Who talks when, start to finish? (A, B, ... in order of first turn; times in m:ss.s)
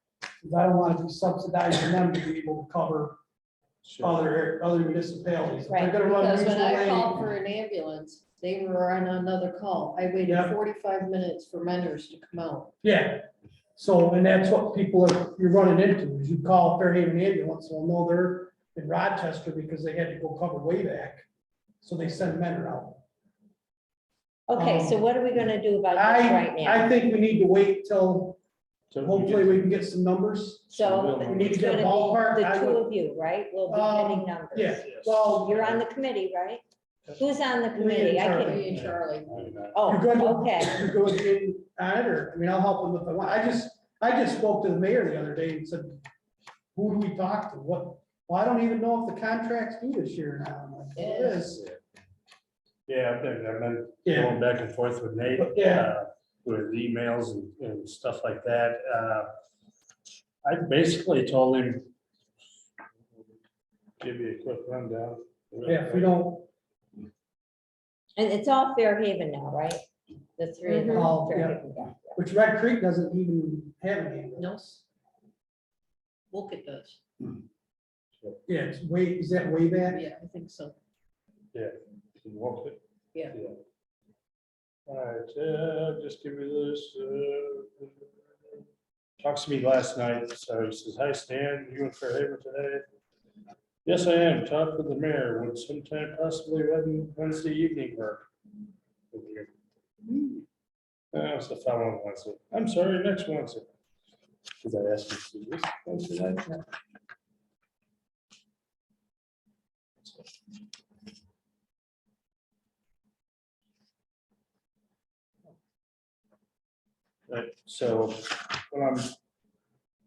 0:00.4-0:03.2 A
0:03.8-0:04.2 B
0:04.0-0:07.3 A
0:05.7-0:06.0 C
0:06.0-0:12.7 D
0:10.2-0:10.5 A
0:12.8-0:21.2 A
0:21.8-0:23.0 A
0:24.5-0:26.9 C
0:24.5-0:25.0 A
0:25.9-0:28.4 A
0:28.9-0:29.6 B
0:29.0-0:32.8 A
0:30.7-0:36.6 C
0:30.7-0:31.8 B
0:33.7-0:35.6 A
0:34.8-0:35.8 B
0:37.2-0:38.7 C
0:37.7-0:38.8 A
0:38.4-0:39.4 D
0:38.7-0:39.9 B
0:39.7-0:40.8 C
0:39.9-0:46.0 A
0:46.7-0:51.6 A
0:51.0-0:51.6 D
0:52.9-0:59.3 B
0:54.0-0:54.4 A
0:55.4-0:55.9 A
1:00.4-1:01.9 B
1:04.0-1:06.1 B
1:05.6-1:06.5 A
1:08.2-1:09.8 C
1:10.4-1:12.2 C
1:10.6-1:11.1 D
1:10.9-1:11.6 A
1:12.1-1:14.8 A
1:14.4-1:14.8 D
1:16.3-1:17.0 D
1:18.5-1:20.0 A
1:19.9-1:20.8 D
1:21.5-1:22.8 B
1:23.3-1:23.6 B
1:24.9-1:28.6 B
1:29.2-1:32.8 B
1:33.8-1:38.3 B
1:39.1-1:39.5 B
1:40.0-1:40.4 B
1:41.1-1:43.7 B
1:44.6-1:46.6 B
1:50.0-1:50.3 B
1:57.3-1:59.1 B